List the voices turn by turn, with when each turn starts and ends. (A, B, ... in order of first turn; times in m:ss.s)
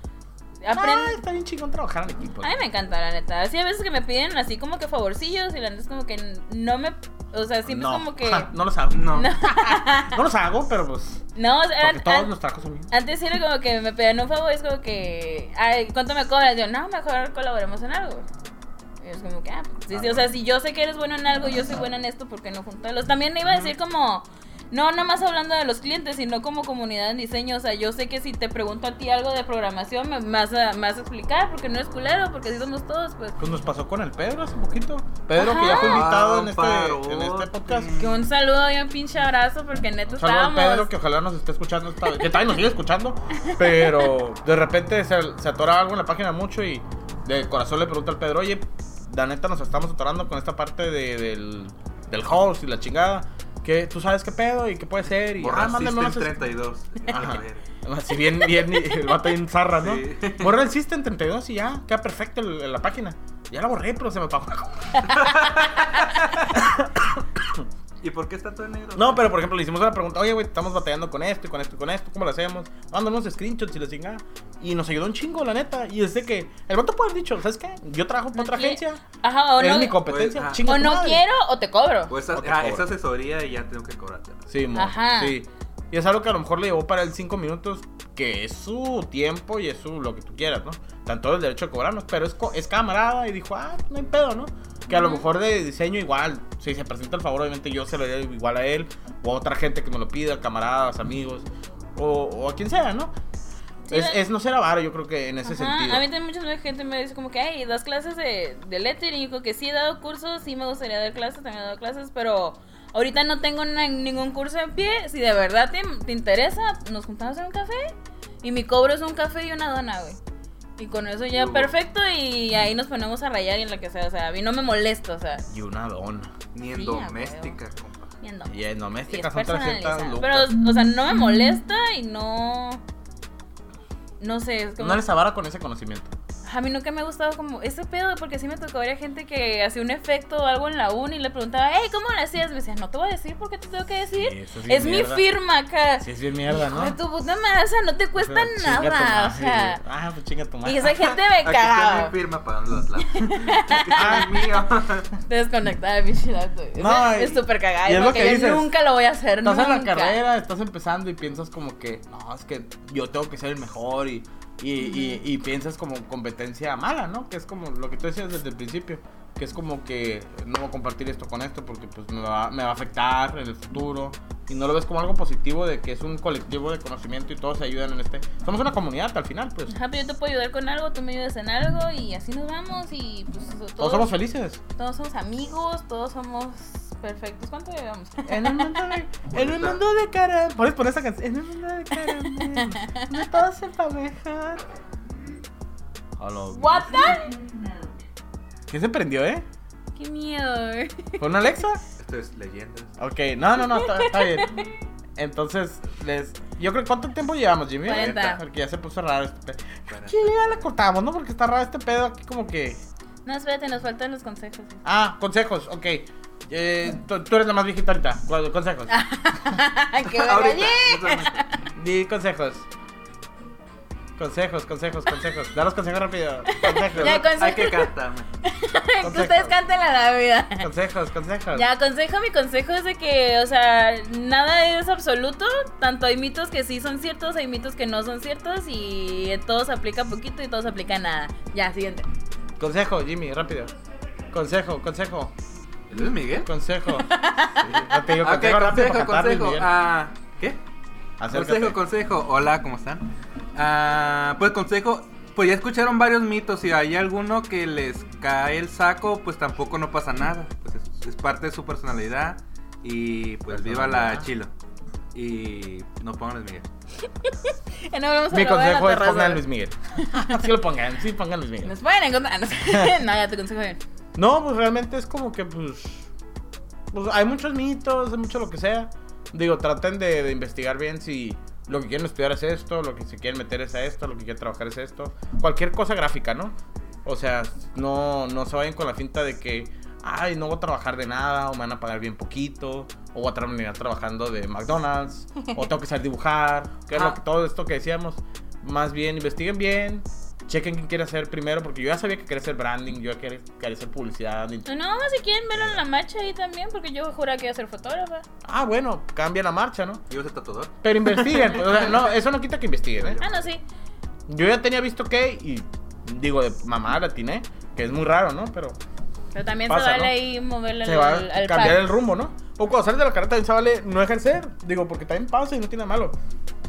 0:00.6-0:01.2 A
0:00.7-0:02.5 B
0:02.4-0:08.5 A
0:07.7-0:11.2 B
0:08.9-0:09.3 C
0:09.1-0:10.2 A
0:11.3-0:12.3 A
0:11.8-0:12.9 B
0:12.9-0:18.2 A
0:19.0-0:33.4 A
0:20.0-0:20.2 B
0:33.4-0:37.9 B
0:35.4-0:36.1 A
0:35.6-0:38.3 C
0:38.0-0:40.9 A
0:40.1-0:56.3 B
0:42.0-0:42.3 A
0:43.4-0:44.1 A
0:55.3-0:57.7 C
0:57.1-1:05.7 B
0:58.2-0:59.3 A
0:59.8-1:00.5 C
1:05.1-1:06.5 C
1:06.5-1:07.6 B
1:08.0-1:09.2 C
1:08.9-1:19.0 B
1:18.3-1:20.0 A
1:19.6-1:21.2 B
1:20.0-1:20.6 C
1:20.6-1:22.1 A
1:22.1-1:24.4 C
1:22.3-1:22.9 B
1:24.5-1:43.1 B
1:24.7-1:25.4 A
1:34.9-1:35.2 A
1:43.9-1:44.2 A
1:43.9-1:46.0 B
1:45.4-2:00.2 A
2:00.8-2:05.4 A
2:01.3-2:01.7 C
2:05.5-2:06.3 B
2:06.5-2:08.2 C
2:06.7-2:07.6 A
2:08.2-2:08.5 A
2:08.5-2:10.5 B
2:09.1-2:12.8 A
2:14.2-2:15.0 A
2:14.8-2:16.1 B
2:16.4-2:29.8 A
2:24.1-2:25.3 B
2:26.0-2:27.0 B
2:28.2-2:30.9 B
2:30.6-2:32.1 A
2:30.9-2:35.1 C
2:33.1-2:34.4 A
2:33.9-2:34.5 B
2:35.3-2:40.2 A
2:36.8-2:38.7 B
2:39.4-2:59.7 B
2:44.8-2:45.2 A
2:59.7-3:04.1 A
3:03.8-3:04.6 B
3:04.8-3:09.0 A
3:08.2-3:14.6 B
3:09.3-3:09.8 C
3:11.9-3:13.1 A
3:16.2-3:17.1 B
3:16.5-3:17.4 A
3:18.7-3:19.4 B
3:19.9-3:21.2 A
3:21.2-3:21.8 B
3:22.0-3:23.0 C
3:23.0-3:24.6 B
3:23.6-3:24.7 A
3:25.2-3:32.8 B
3:27.8-3:28.4 A
3:27.9-3:28.4 C
3:29.9-3:30.7 C
3:33.2-3:34.8 A
3:34.8-3:38.9 B
3:38.9-3:41.5 A
3:40.0-3:41.4 C
3:41.8-3:42.7 B
3:44.2-3:47.2 B
3:46.5-3:47.9 A
3:46.9-3:48.3 C
3:48.4-3:50.7 A
3:49.0-3:49.5 B
3:50.6-3:51.7 B
3:51.5-4:02.0 A
4:02.6-4:03.7 B
4:04.3-4:05.3 B
4:05.9-4:06.5 C
4:06.4-4:07.1 B
4:06.9-4:07.8 A
4:07.6-4:10.6 C
4:07.7-4:09.7 B
4:11.2-4:11.8 B
4:11.3-4:24.5 C
4:23.5-4:24.3 B
4:25.1-4:26.7 C
4:27.2-4:29.4 A
4:28.3-4:31.7 B
4:30.0-4:30.4 A
4:31.6-4:33.8 A
4:32.6-4:32.9 B
4:34.2-4:36.1 B
4:36.9-5:04.7 B
4:56.9-4:57.2 A
5:04.6-5:08.2 A
5:05.5-5:05.8 B
5:08.4-5:10.0 B
5:10.1-5:10.7 C
5:10.8-5:13.2 B
5:11.6-5:12.0 C
5:13.0-5:13.5 C
5:13.2-5:13.6 A
5:14.3-5:18.8 B
5:19.3-5:21.9 A
5:19.7-5:20.2 B
5:20.8-5:26.2 B